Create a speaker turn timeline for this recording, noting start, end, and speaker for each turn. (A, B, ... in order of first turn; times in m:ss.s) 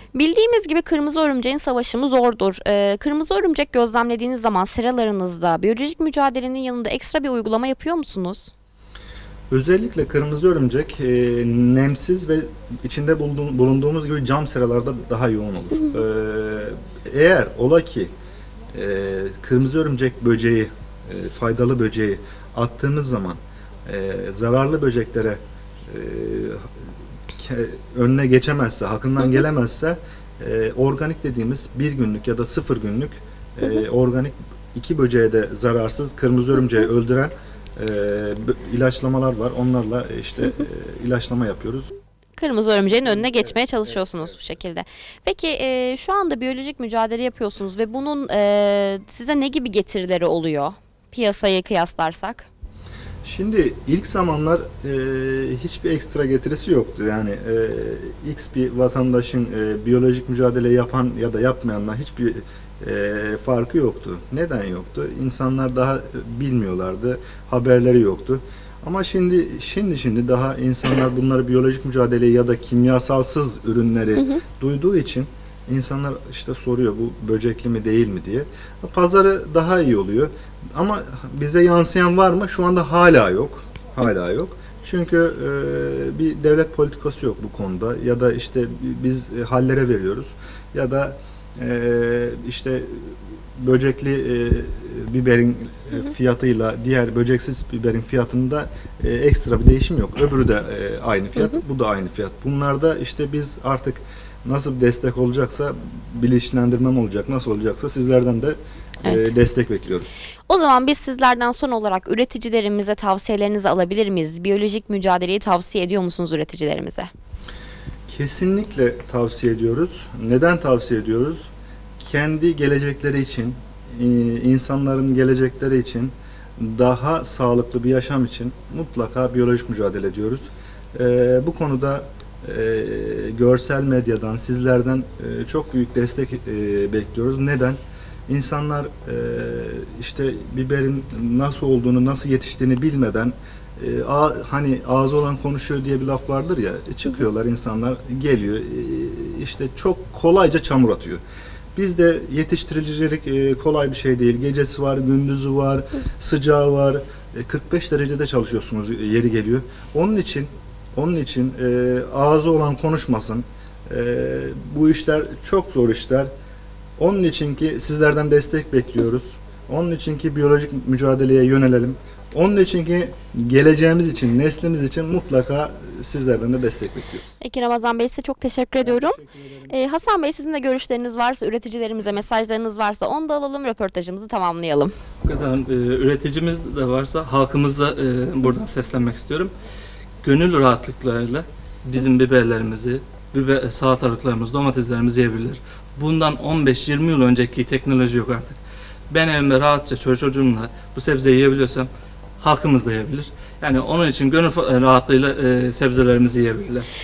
0:00.1-0:08.5 A
0:09.5-0:18.1 B
0:18.7-0:41.9 B
0:42.4-0:52.5 A
0:43.2-0:43.6 B
0:53.2-1:50.1 B
1:49.1-1:49.3 A
1:50.5-1:57.1 A
1:58.1-2:31.2 B
2:31.8-2:46.3 B
2:47.0-2:57.4 B
2:57.4-3:05.0 A
3:05.2-3:09.5 C
3:10.2-3:18.6 C
3:19.1-3:21.9 C
3:22.4-3:26.9 C